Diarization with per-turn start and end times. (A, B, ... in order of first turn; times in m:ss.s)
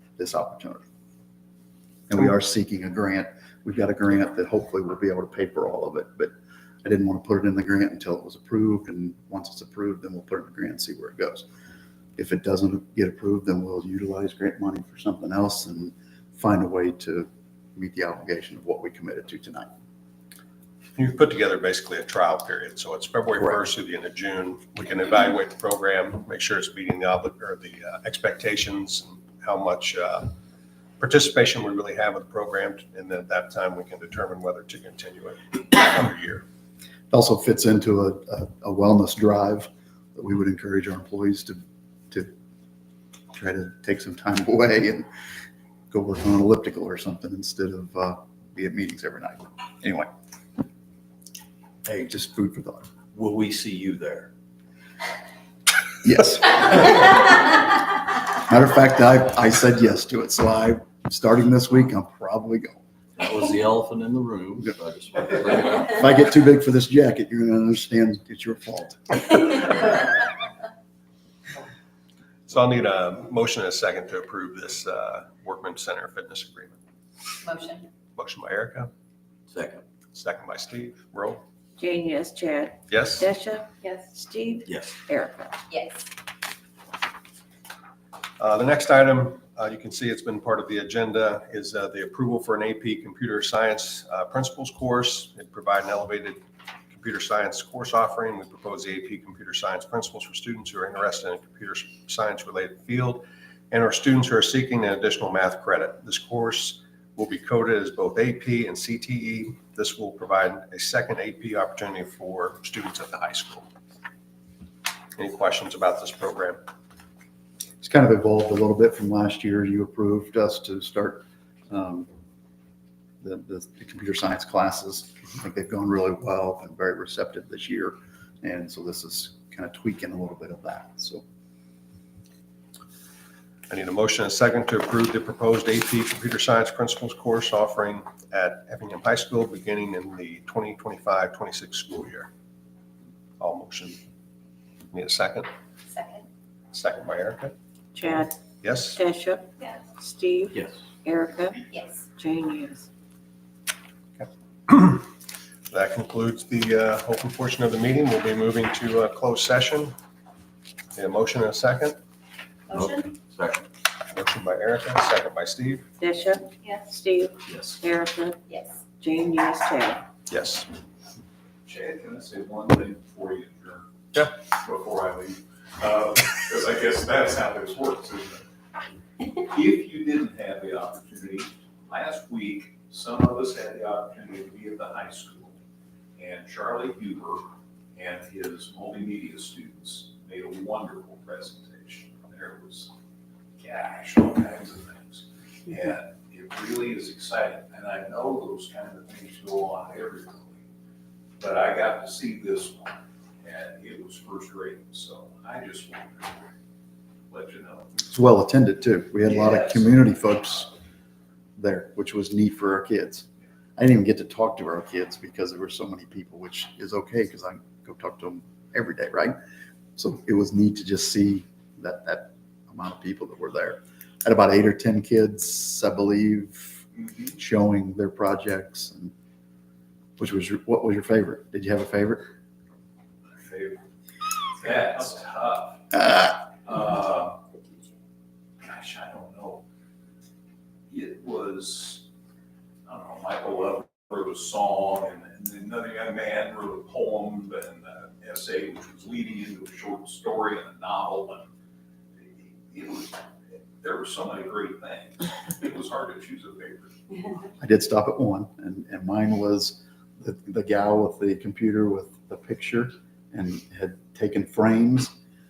0:00.2-0:00.9 A
0:02.1-0:06.3 A
0:06.8-0:11.5 A
0:12.2-0:19.7 A
0:21.0-0:30.3 B
0:31.0-0:36.4 B
0:37.1-0:42.3 A
0:43.3-0:45.1 A
0:45.9-0:50.1 A
0:51.8-0:52.8 A
0:53.1-0:54.3 C
0:56.0-0:57.4 A
0:58.4-1:02.8 A
1:03.2-1:05.9 C
1:05.8-1:09.9 A
1:12.5-1:16.7 B
1:17.4-1:17.9 D
1:18.2-1:18.9 B
1:19.5-1:19.8 C
1:20.1-1:21.4 B
1:21.8-1:25.6 E
1:22.9-1:23.3 B
1:23.8-1:24.1 D
1:24.7-1:25.0 C
1:25.7-1:26.0 D
1:28.4-1:53.7 B
1:55.2-1:56.6 B
1:57.8-2:02.1 A
2:03.2-2:11.2 A
2:13.7-2:22.3 B
2:23.4-2:24.0 B
2:24.9-2:25.5 B
2:25.9-2:26.3 D
2:26.7-2:27.5 B
2:28.0-2:28.3 E
2:28.0-2:29.0 B
2:29.0-2:32.9 E
2:31.7-2:32.0 D
2:34.2-2:35.1 B
2:35.7-2:40.0 B
2:41.0-2:42.0 B
2:42.7-2:43.7 C
2:42.7-2:43.1 D
2:44.1-2:45.8 B
2:46.0-2:48.4 E
2:47.5-2:47.8 C
2:48.5-2:48.8 D
2:49.0-2:50.0 E
2:50.3-2:50.7 B
2:51.7-2:53.9 F
2:54.5-2:58.4 F
2:59.3-3:05.6 F
3:06.2-3:12.9 F
3:13.6-3:20.6 F
3:21.4-3:26.5 F
3:27.3-3:28.0 F
3:28.1-3:30.7 A
3:29.3-3:29.9 F
3:31.6-3:39.4 A
3:40.0-3:49.1 A
3:50.2-3:52.3 A
3:53.4-3:53.8 F
3:54.6-3:57.4 F
3:58.6-3:59.6 F
4:00.9-4:02.0 F
4:02.9-4:11.5 F
4:12.2-4:13.3 F
4:13.8-4:17.0 F
4:17.6-4:25.1 A